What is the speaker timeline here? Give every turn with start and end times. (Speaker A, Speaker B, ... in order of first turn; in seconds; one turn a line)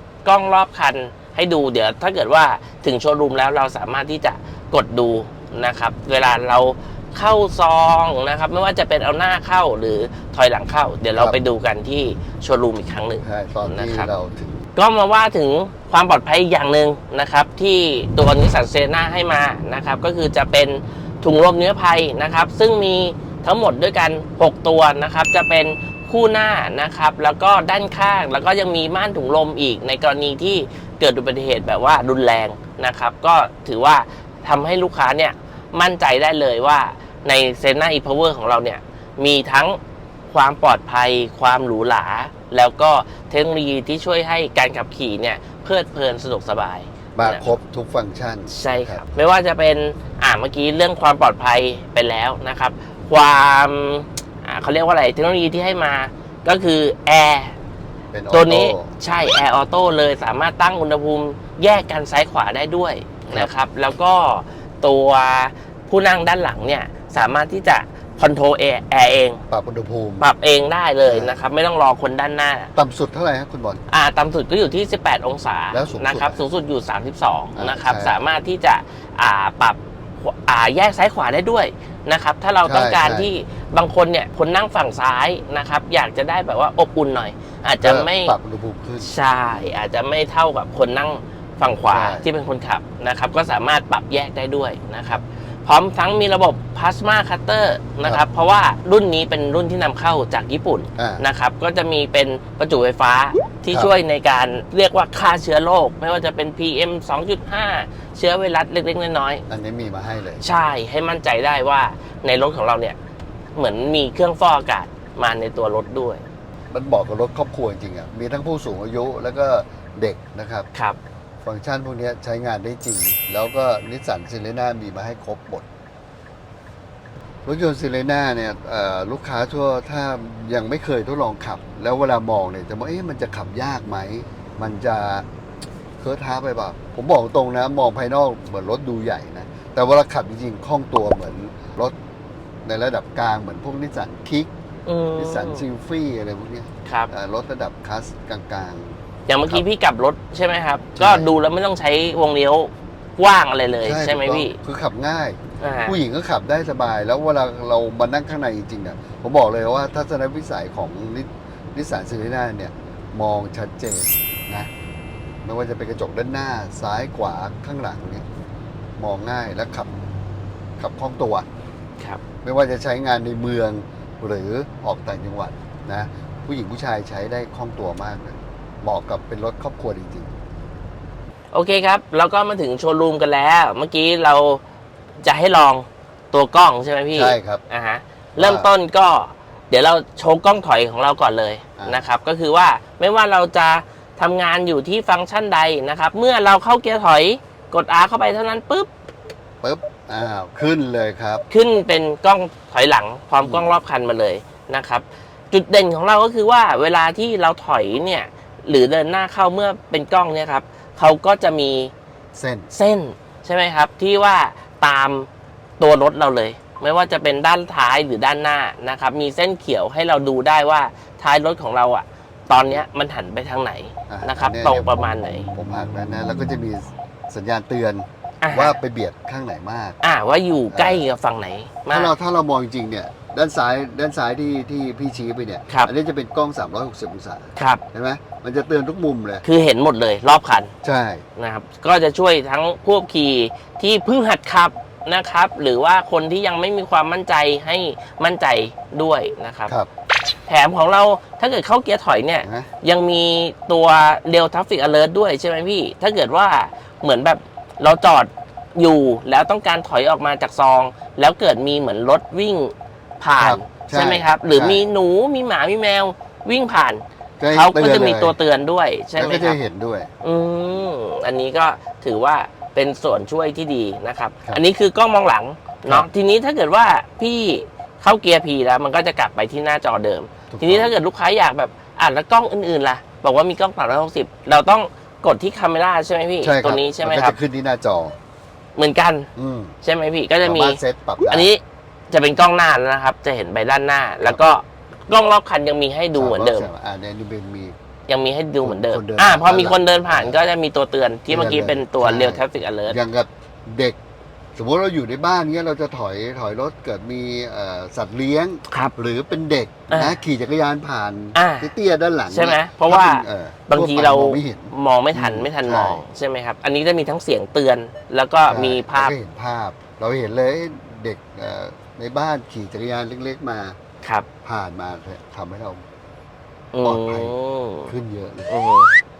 Speaker A: 0.2-14.1
Speaker B: 13.2-14.7
Speaker A: 14.8-39.8
Speaker A: 40.3-47.5
Speaker B: 47.1-49.0
Speaker A: 48.5-57.5
Speaker B: 58.1-58.9
Speaker A: 58.3-69.4
Speaker B: 69.5-70.3
Speaker A: 70.2-72.7
Speaker B: 71.0-71.4
Speaker B: 72.8-73.8
Speaker A: 73.9-88.3
Speaker B: 75.7-76.4
Speaker B: 77.5-78.2
Speaker B: 82.6-83.3
Speaker B: 87.8-89.1
Speaker A: 89.0-109.4
Speaker B: 91.9-92.3
Speaker B: 101.0-101.2
Speaker B: 109.5-110.4
Speaker A: 110.4-113.0
Speaker A: 113.5-116.2
Speaker B: 116.7-120.7
Speaker B: 121.4-125.6
Speaker B: 127.4-135.2
Speaker B: 136.0-141.9
Speaker B: 142.6-144.5
Speaker A: 144.8-145.6
Speaker B: 145.2-149.6
Speaker A: 146.8-147.1
Speaker A: 149.3-154.6
Speaker B: 150.9-151.3
Speaker B: 153.8-164.7
Speaker A: 155.6-156.0
Speaker B: 165.4-168.2
Speaker B: 169.0-169.9
Speaker B: 170.8-171.4
Speaker B: 172.4-180.3
Speaker A: 181.5-184.6
Speaker A: 185.2-198.9
Speaker B: 187.1-187.6
Speaker B: 188.3-188.7
Speaker B: 191.8-192.1
Speaker B: 199.6-201.4
Speaker A: 201.5-211.9
Speaker B: 203.4-203.7
Speaker B: 212.3-212.7
Speaker A: 212.7-215.3
Speaker A: 215.8-225.5
Speaker B: 222.5-222.8
Speaker B: 224.1-230.0
Speaker A: 228.4-228.8
Speaker A: 230.0-232.1
Speaker B: 230.7-231.1
Speaker B: 231.9-239.4
Speaker A: 237.6-237.8
Speaker A: 239.4-240.7
Speaker B: 240.8-241.2
Speaker A: 241.4-249.7
Speaker A: 250.5-269.6
Speaker B: 252.4-252.7
Speaker B: 263.4-264.8
Speaker B: 267.4-268.4
Speaker B: 269.1-270.1
Speaker A: 270.2-287.4
Speaker B: 280.5-280.9
Speaker B: 286.4-288.1
Speaker A: 288.8-289.3
Speaker B: 289.4-289.7
Speaker A: 289.8-296.7
Speaker B: 290.4-291.5
Speaker B: 294.2-294.5
Speaker B: 296.1-297.7
Speaker A: 298.1-303.0
Speaker B: 298.6-300.4
Speaker B: 301.3-304.0
Speaker B: 304.6-316.0
Speaker A: 309.9-310.2
Speaker A: 311.3-311.7
Speaker A: 312.3-319.1
Speaker B: 318.5-323.8
Speaker A: 324.0-324.3
Speaker B: 324.4-325.8
Speaker A: 326.7-327.9
Speaker B: 326.8-327.3
Speaker B: 327.9-328.6
Speaker A: 328.5-328.9